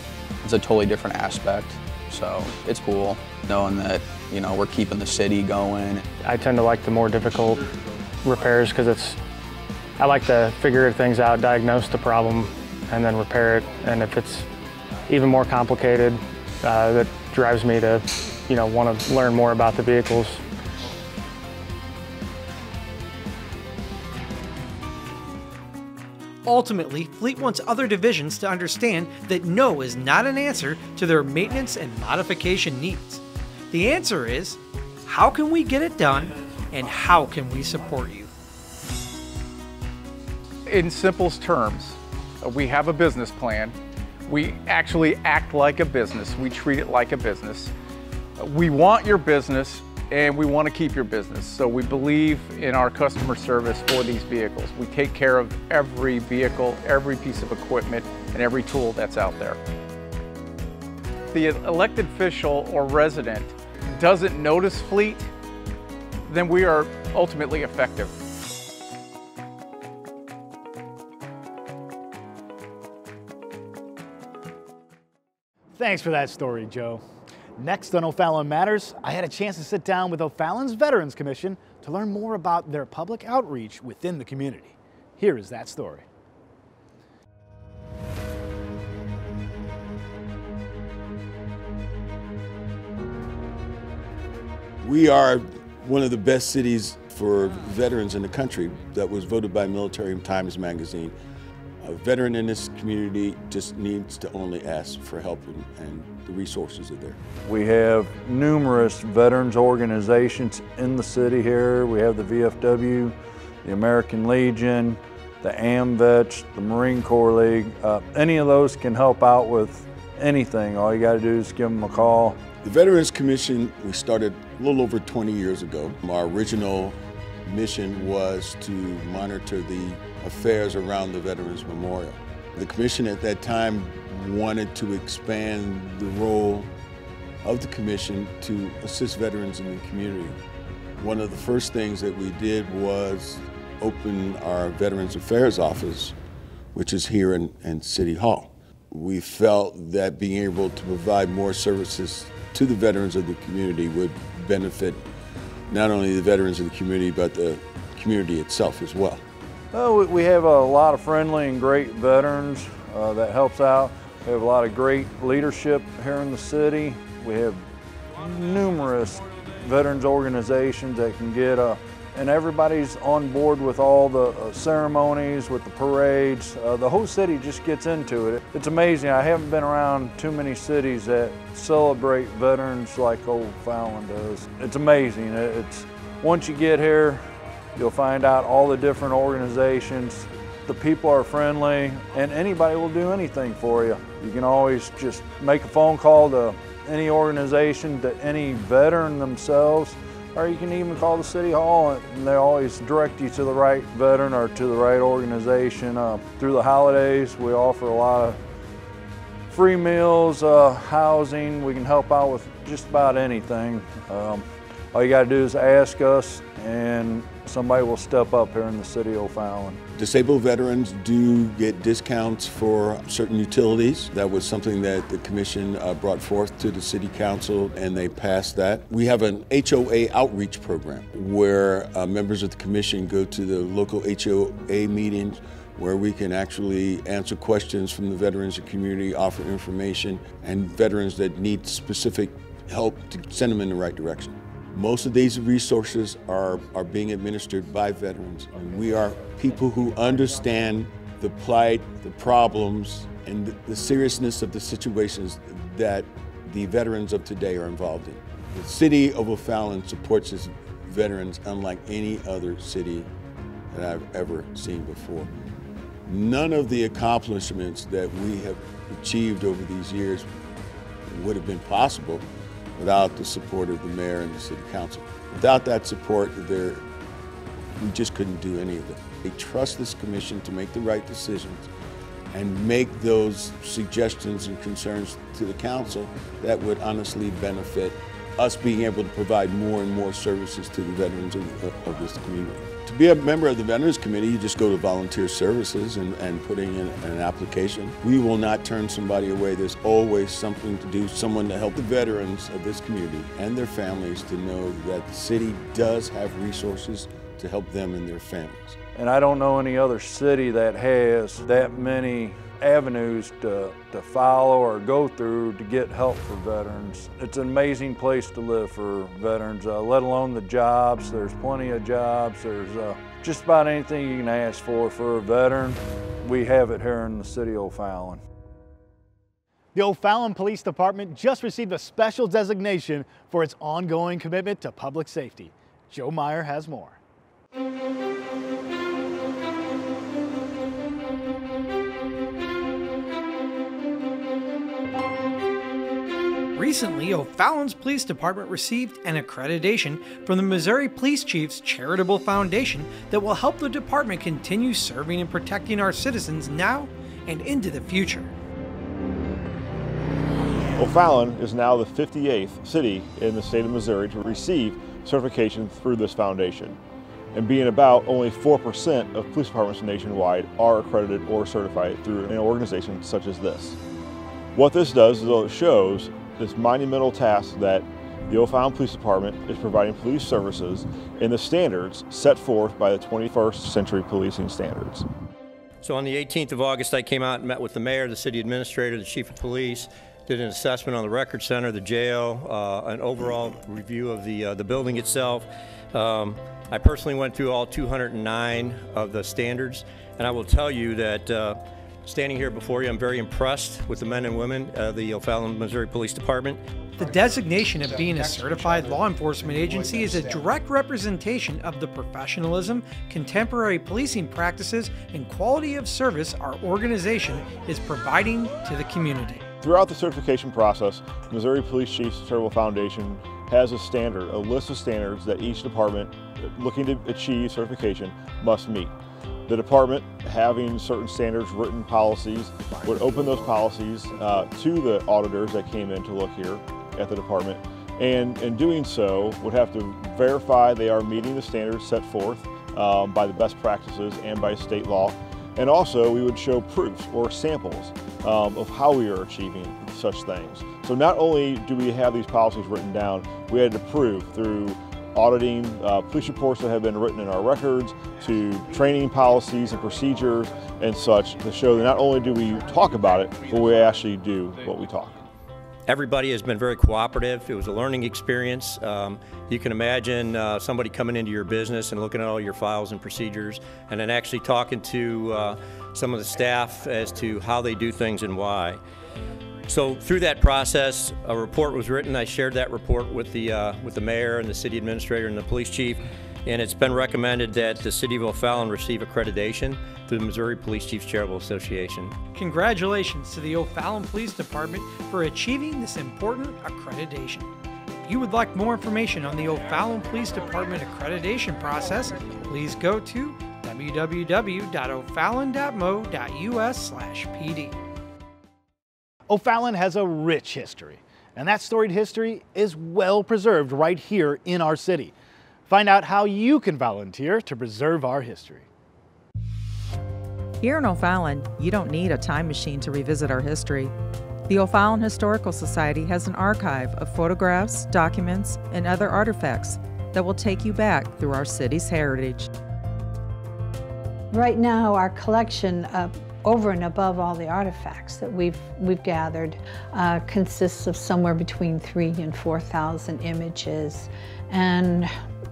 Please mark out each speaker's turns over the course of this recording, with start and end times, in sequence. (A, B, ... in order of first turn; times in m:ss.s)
0:00.4-0:06.0 A
0:06.2-0:07.7 B
0:08.2-0:09.2 B
0:10.0-0:14.5 B
0:15.1-0:20.4 B
0:26.4-0:38.3 C
0:40.6-0:47.7 D
0:48.4-0:59.6 D
1:01.3-1:05.3 D
1:06.2-1:08.1 D
1:15.7-1:17.0 E
1:17.6-1:26.0 E
1:34.8-1:41.1 F
1:41.8-1:47.2 F
1:47.4-2:02.4 G
2:02.6-2:16.7 F
2:17.4-2:20.4 F
2:21.0-2:26.1 F
2:26.7-2:35.0 F
2:35.7-2:39.2 F
2:39.7-2:47.6 G
2:48.2-3:07.2 G
3:07.8-3:28.4 G
3:29.5-3:39.8 G
3:39.9-4:23.1 F
4:23.7-4:25.3 F
4:26.1-4:30.3 F
4:31.1-4:32.2 F
4:32.8-4:36.8 F
4:37.8-4:41.7 F
4:42.3-5:08.8 F
5:08.9-5:28.2 G
5:29.7-5:37.0 E
5:46.5-5:58.3 C
6:00.8-6:06.8 H
6:07.3-6:13.8 H
6:14.5-6:25.0 H
6:25.8-6:46.6 I
6:47.0-6:59.4 C
6:59.6-7:08.9 H
7:09.5-7:45.2 H
7:45.9-7:58.8 I
7:59.7-8:12.2 I
8:12.3-8:17.5 C
8:18.0-8:27.8 C
8:29.3-8:35.1 E
8:35.7-8:38.7 E
8:40.6-8:43.9 J
8:44.5-8:52.5 J
8:54.3-9:05.1 K